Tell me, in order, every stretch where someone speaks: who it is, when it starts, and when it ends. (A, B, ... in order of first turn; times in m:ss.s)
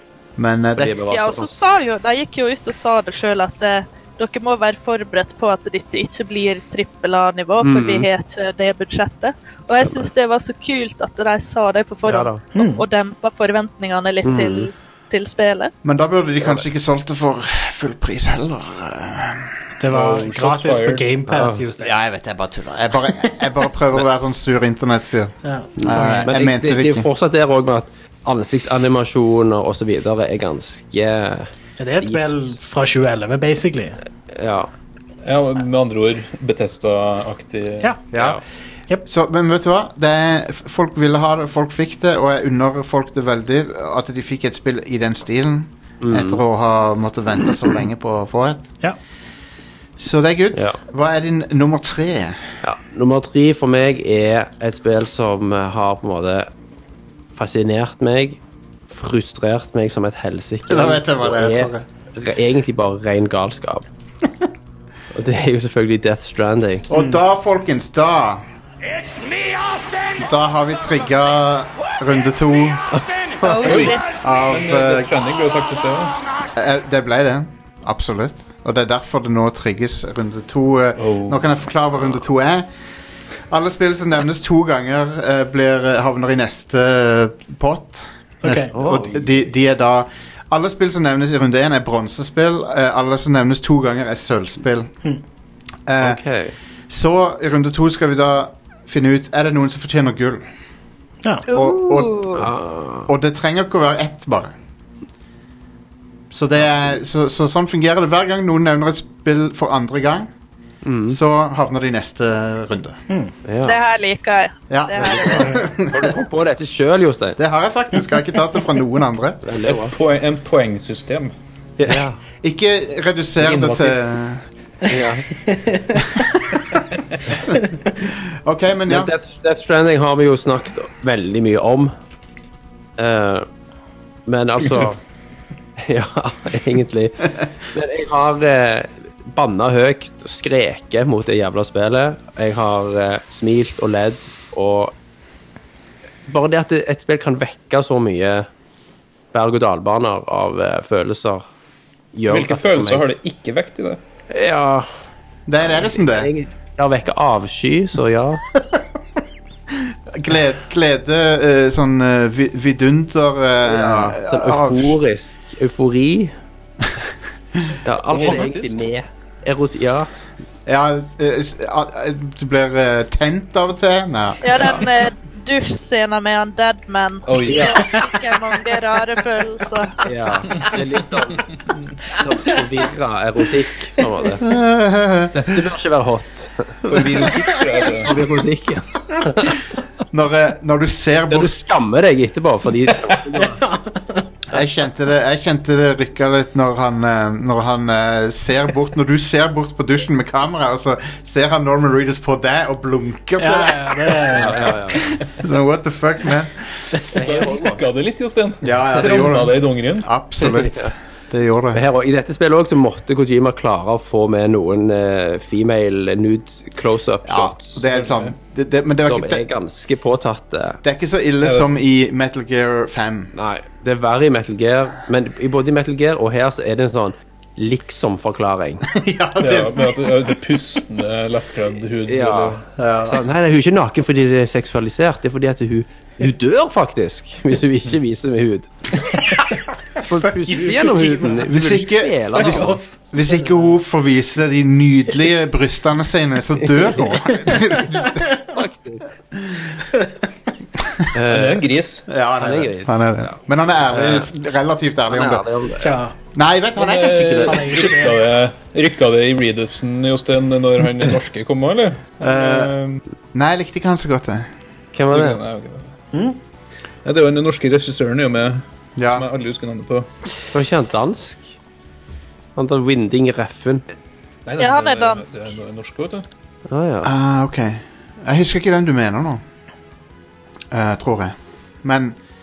0:00.4-0:01.0 A
0:00.8-0:01.5 B
0:01.1-0:15.7 C
0:07.6-0:08.1 B
0:09.7-0:10.1 B
0:12.0-0:12.4 B
0:12.5-0:12.8 D
0:14.2-0:14.7 B
0:15.8-0:19.5 A
0:19.8-0:22.0 D
0:19.9-0:21.1 E
0:21.3-0:21.6 B
0:21.8-0:27.1 A
0:25.4-0:26.3 D
0:25.8-0:32.5 B
0:31.8-0:34.0 D
0:34.3-0:34.7 B
0:35.2-0:38.0 E
0:38.1-0:38.4 A
0:38.1-0:38.4 B
0:39.0-0:48.7 A
0:46.0-0:46.4 B
0:50.0-0:52.4 A
0:52.6-0:56.5 B
0:57.3-1:03.9 B
1:00.7-1:01.8 A
1:05.1-1:06.9 B
1:06.9-1:08.4 A
1:10.1-1:13.0 A
1:12.9-1:13.9 B
1:13.4-1:14.1 C
1:13.6-1:16.2 E
1:14.2-1:15.1 A
1:16.6-1:22.7 A
1:21.0-1:21.4 E
1:23.5-1:34.9 A
1:28.4-1:28.7 D
1:28.7-1:29.2 B
1:28.9-1:29.2 E
1:35.9-1:36.2 A
1:36.0-1:36.6 B
1:36.9-1:40.4 A
1:41.5-1:42.5 C
1:41.5-1:42.3 A
1:42.3-1:43.1 B
1:43.1-1:44.5 A
1:46.3-1:50.3 A
1:50.8-1:51.2 B
1:51.1-1:53.0 A
1:53.4-1:53.8 B
1:53.6-1:55.6 C
1:54.7-1:56.1 A
1:55.0-1:57.4 B
1:57.4-1:59.4 A
1:59.4-1:59.9 B
1:59.7-2:01.3 E
2:01.8-2:04.4 A
2:01.8-2:02.2 B
2:03.4-2:04.0 E
2:04.9-2:05.2 B
2:05.5-2:06.0 D
2:06.1-2:06.6 A
2:08.0-2:09.1 A
2:08.9-2:11.9 B
2:13.0-2:13.4 B
2:14.3-2:15.0 B
2:15.8-2:24.9 B
2:26.2-2:28.5 B
2:29.3-2:31.4 B
2:32.1-2:33.0 B
2:32.3-2:34.0 E
2:34.3-2:34.9 B
2:35.5-2:36.3 A
2:35.6-2:38.4 B
2:39.7-2:45.0 A
2:43.7-2:46.3 B
2:47.8-2:50.1 B
2:48.1-2:48.8 E
2:50.6-2:54.8 A
2:54.4-3:00.0 C
2:57.2-2:57.8 E
2:57.5-2:57.8 B
3:00.0-3:01.5 B
3:00.5-3:00.8 E
3:01.3-3:01.8 E
3:02.1-3:04.5 B
3:04.4-3:05.6 A
3:05.3-3:07.5 B
3:06.8-3:08.2 E
3:08.0-3:09.7 B
3:10.1-3:11.6 A
3:11.3-3:13.6 B
3:13.5-3:14.2 D
3:14.5-3:26.8 A
3:23.4-3:24.7 D
3:24.3-3:25.1 B
3:27.1-3:30.1 E
3:27.1-3:27.8 B
3:28.6-3:31.8 A
3:30.4-3:30.9 B
3:31.7-3:37.8 B
3:37.2-3:39.4 A
3:37.9-3:38.3 E
3:39.0-3:40.8 B
3:40.8-3:43.3 A
3:41.4-3:41.8 E
3:43.3-3:48.9 B
3:48.9-3:50.1 A
3:49.4-3:52.6 E
3:52.1-3:59.2 B
3:52.8-3:53.2 A
4:00.0-4:02.8 B
4:00.1-4:01.5 D
4:01.4-4:08.4 A
4:02.3-4:02.8 D
4:06.8-4:07.8 B
4:08.5-4:09.0 B
4:09.3-4:09.8 A
4:10.8-4:11.1 A
4:11.1-4:11.7 B
4:11.2-4:12.0 E
4:12.1-4:15.4 A
4:12.4-4:13.3 B
4:13.9-4:14.3 B
4:15.1-4:16.0 B
4:15.8-4:16.1 D
4:16.3-4:17.9 A
4:16.8-4:23.0 E
4:17.4-4:18.3 D
4:22.2-4:22.7 A
4:23.3-4:24.5 A
4:24.9-4:25.4 B
4:25.1-4:25.9 E
4:26.1-4:26.4 D
4:27.0-4:30.1 E
4:29.0-4:29.3 A
4:30.5-4:31.5 B
4:32.6-4:33.8 B
4:34.4-4:36.2 E
4:34.6-4:35.5 C
4:36.7-4:37.1 B
4:37.0-4:39.4 A
4:40.7-4:42.2 A